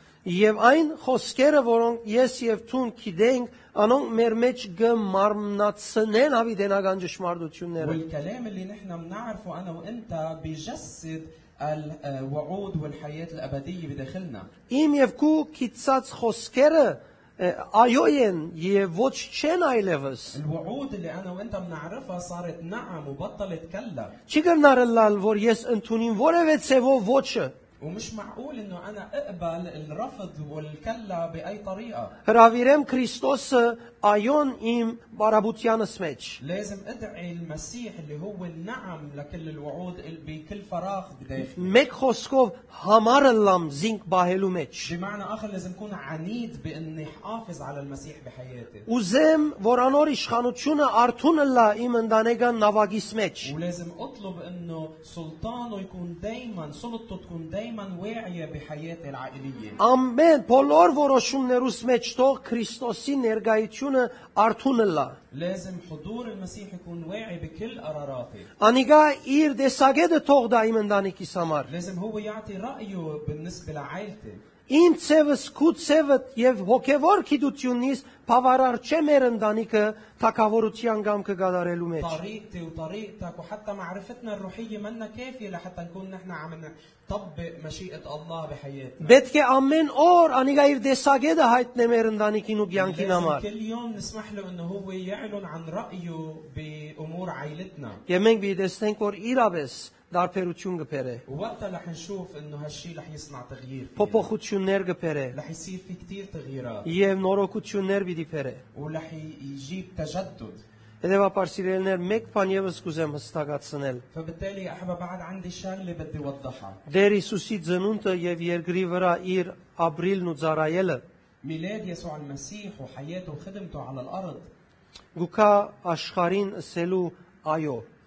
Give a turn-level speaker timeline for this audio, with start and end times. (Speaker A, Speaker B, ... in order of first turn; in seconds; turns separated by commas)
Speaker A: 0.2-8.0, Speaker B: 7.8-14.5, Speaker A: 14.7-20.4, Speaker B: 20.3-24.1, Speaker A: 24.3-27.5, Speaker B: 27.8-32.1, Speaker A: 32.2-36.4, Speaker B: 36.4-41.8, Speaker A: 41.5-44.9, Speaker B: 44.9-48.9, Speaker A: 48.9-53.5, Speaker B: 53.4-59.8, Speaker A: 59.8-65.2, Speaker B: 65.3-68.5, Speaker A: 68.6-71.7, Speaker B: 71.7-74.4, Speaker A: 74.7-82.2, Speaker B: 82.0-89.2, Speaker A: 89.0-93.5, Speaker B: 92.7-98.0, Speaker A: 98.1-101.2, Speaker B: 101.3-104.3, Speaker A: 104.0-105.4, Speaker B: 105.3-106.9, Speaker A: 106.8-108.6, Speaker B: 108.7-110.6, Speaker A: 111.0-114.0, Speaker B: 114.1-116.8, Speaker A: 116.9-121.0, Speaker B: 121.4-124.5, Speaker A: 125.2-127.8